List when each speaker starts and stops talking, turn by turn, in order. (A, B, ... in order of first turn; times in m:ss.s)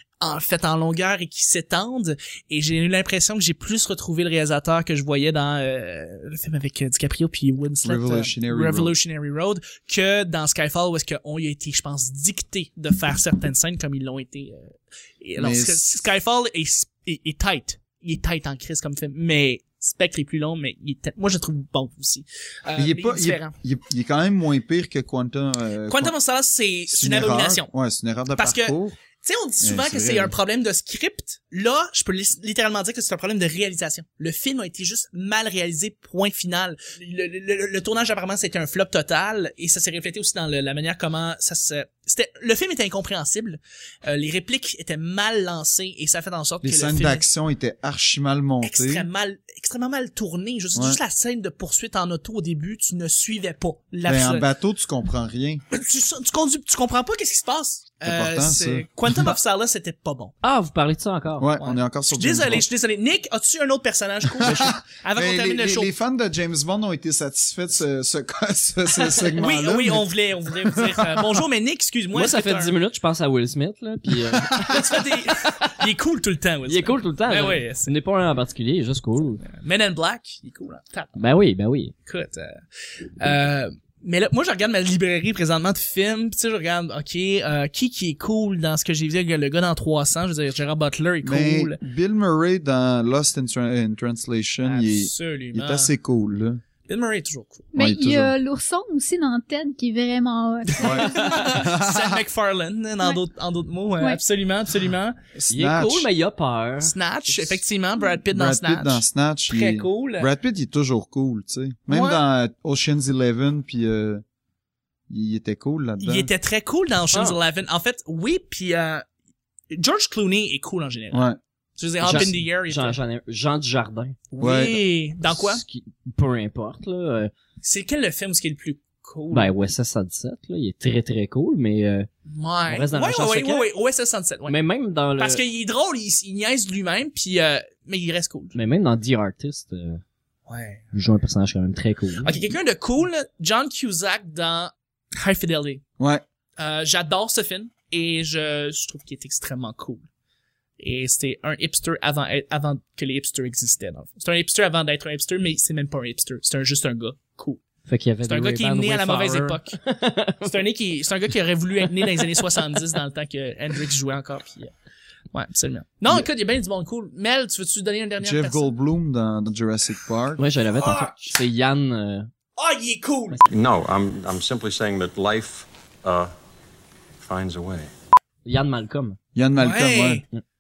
0:00.2-0:23.5 A
0:07.8-0:09.0 B
0:15.4-0:15.9 B
0:22.8-0:26.1 B
0:25.9-0:27.7 A
0:26.9-0:29.0 B
0:28.4-0:47.3 A
0:29.6-0:30.3 B
0:46.6-0:49.1 B
0:48.6-0:54.5 A
0:54.1-0:55.6 B
0:55.7-1:00.4 A
0:58.0-0:59.4 B
1:00.4-1:01.5 C
1:01.4-1:02.6 B
1:01.6-1:05.9 A
1:04.4-1:10.1 B
1:04.4-1:04.8 C
1:09.4-1:12.8 A
1:10.6-1:11.4 B
1:12.1-1:15.7 C
1:14.5-1:17.9 A
1:16.7-1:19.4 C
1:19.4-1:21.2 A
1:21.2-1:21.9 C
1:22.1-1:22.6 A
1:23.2-1:31.8 A
1:31.2-1:36.6 B
1:34.6-1:35.9 A
1:36.9-1:37.7 A
1:37.7-1:41.5 D
1:37.8-1:38.3 B
1:40.7-1:45.2 A
1:40.8-1:42.2 B
1:45.4-1:46.1 B
1:45.5-1:47.6 C
1:46.8-1:50.3 A
1:48.3-1:54.2 B
1:51.9-1:52.2 A
1:55.1-1:56.3 B
1:56.0-1:59.0 A
1:57.1-1:57.4 C
1:59.7-2:03.0 A
2:01.1-2:01.4 B
2:02.0-2:04.2 C
2:04.3-2:05.6 A
2:04.4-2:04.8 B
2:05.3-2:07.3 C
2:07.6-2:09.5 A
2:09.3-2:12.1 C
2:12.3-2:14.6 A
2:12.7-2:13.7 C
2:14.5-2:15.4 C
2:15.2-2:18.6 A
2:18.6-2:20.0 C
2:20.5-2:20.8 A
2:20.9-2:22.4 C
2:22.2-2:25.8 A
2:26.6-2:30.0 A
2:30.8-2:37.6 A
2:37.9-2:40.5 C
2:38.2-2:39.8 A
2:40.4-2:44.7 A
2:45.3-2:48.7 A
2:48.2-2:50.4 B
2:50.4-2:52.3 C
2:50.8-2:51.4 A
2:52.6-2:53.4 A
2:53.5-2:56.3 E
2:57.2-2:57.9 E
2:58.4-2:59.2 C
2:59.4-3:00.2 B
2:59.6-3:00.2 A